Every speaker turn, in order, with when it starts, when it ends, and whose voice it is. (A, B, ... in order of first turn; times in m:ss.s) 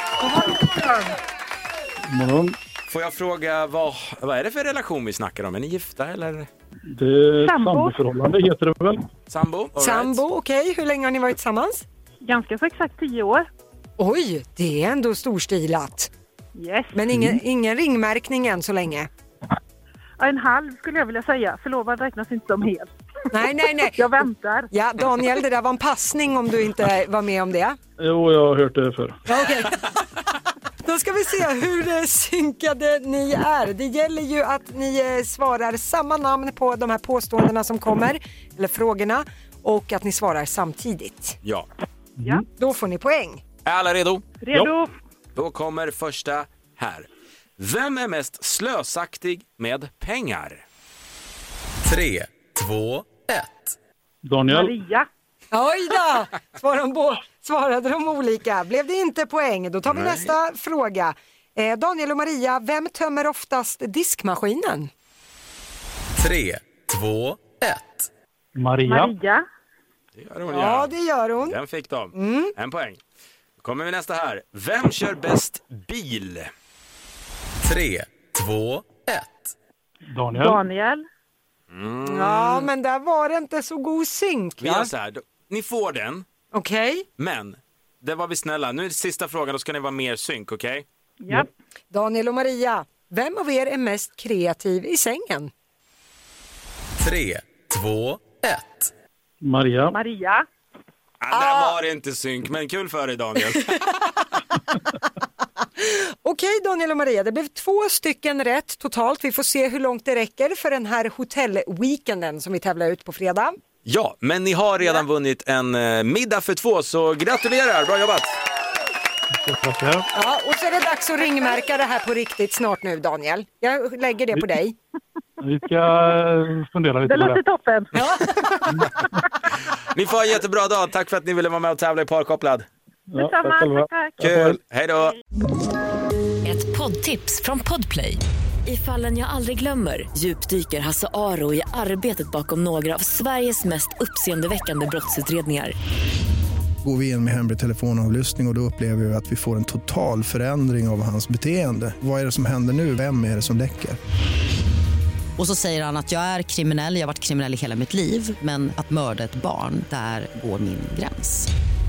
0:00.2-0:01.2 A
0:02.1-0:02.6 B
0:02.9-0:06.5 C
0:06.9-0:09.0 B
0:07.5-0:07.9 D
0:09.3-0:10.2 C
0:09.8-0:11.8 A
0:12.2-0:13.4 D
0:14.0-0:16.1 A
0:16.5-0:16.9 D
0:16.9-0:19.1 A
0:17.1-0:17.4 B
0:20.2-0:22.9 D
0:23.3-0:27.8 A
0:24.0-0:24.6 D
0:28.0-0:29.2 B
0:29.3-0:30.0 A
0:30.8-0:41.4 A
0:42.2-0:42.4 B
0:42.6-0:43.4 A
0:43.6-0:44.2 C
0:44.5-0:44.9 D
0:45.3-0:47.1 C
0:47.6-0:50.6 C
0:51.8-0:53.8 E
0:54.2-0:54.8 B
0:54.6-0:55.1 D
0:55.5-1:04.9 A
0:59.9-1:00.3 C
1:06.2-1:08.1 E
1:08.6-1:09.2 B
1:08.9-1:09.4 D
1:10.1-1:13.0 C
1:10.5-1:11.6 A
1:12.1-1:12.5 A
1:13.6-1:16.5 C
1:17.6-1:19.5 E
1:20.1-1:20.6 B
1:20.4-1:21.0 D
1:21.7-1:22.7 C
1:22.0-1:24.9 A
1:24.6-1:26.2 C
1:26.5-1:27.0 A
1:27.2-1:30.8 C
1:31.9-1:35.5 A
1:37.0-1:38.9 E
1:39.4-1:40.0 B
1:40.0-1:40.4 D
1:41.2-1:43.8 C
1:41.3-1:41.7 A
1:43.7-1:44.2 A
1:45.8-1:53.5 A
1:53.8-1:58.3 C
1:59.3-2:00.1 B
2:00.1-2:04.8 A
2:05.4-2:07.4 B
2:07.2-2:07.8 D
2:07.9-2:08.9 A
2:08.7-2:08.9 B
2:09.8-2:12.7 C
2:13.1-2:14.6 B
2:13.3-2:14.1 D
2:14.2-2:15.2 C
2:16.4-2:25.7 F
2:26.8-2:34.0 G
2:35.4-2:41.5 H